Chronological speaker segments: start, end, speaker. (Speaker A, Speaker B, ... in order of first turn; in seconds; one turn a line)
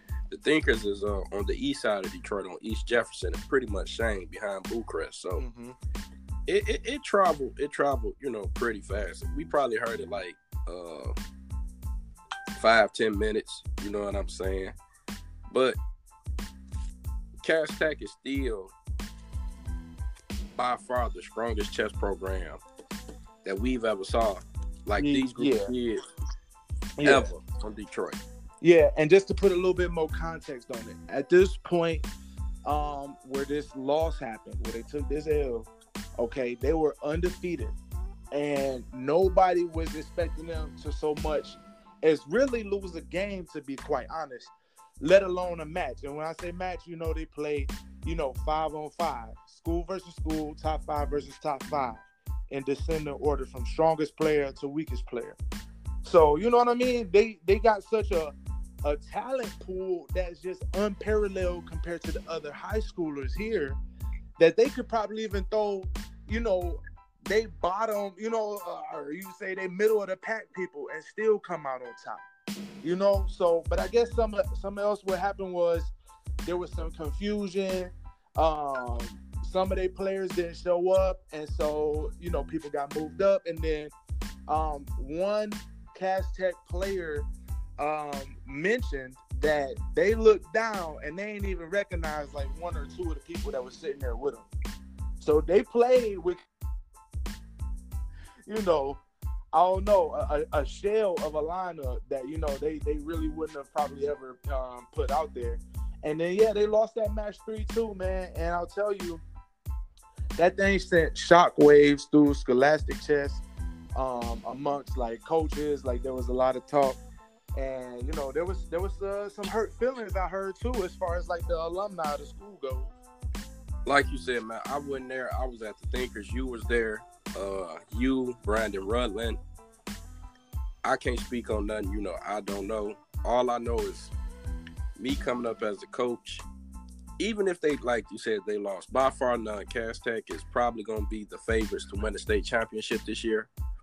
Speaker A: 0.3-5.4
Speaker B: 5.4-5.8
Speaker A: 6.5-11.1
Speaker A: 12.6-14.7
Speaker A: 15.5-15.8
Speaker A: 17.4-18.7
Speaker A: 20.5-22.6
Speaker A: 23.4-26.0
Speaker B: 25.0-25.7
Speaker B: 27.0-27.3
Speaker A: 27.0-28.2
Speaker B: 28.6-32.1
Speaker B: 32.6-37.7
Speaker B: 38.3-55.4
Speaker B: 56.0-58.3
Speaker B: 58.8-63.8
Speaker B: 64.4-72.2
Speaker B: 72.8-75.9
Speaker B: 76.4-83.9
Speaker B: 84.5-87.3
Speaker B: 87.8-94.5
Speaker B: 95.2-96.4
Speaker B: 98.5-99.0
Speaker B: 99.5-109.2
Speaker B: 110.4-113.4
Speaker B: 114.0-117.0
Speaker B: 117.5-122.9
Speaker A: 123.8-129.4
Speaker A: 130.8-134.1
Speaker A: 134.9-136.4
Speaker A: 137.2-143.5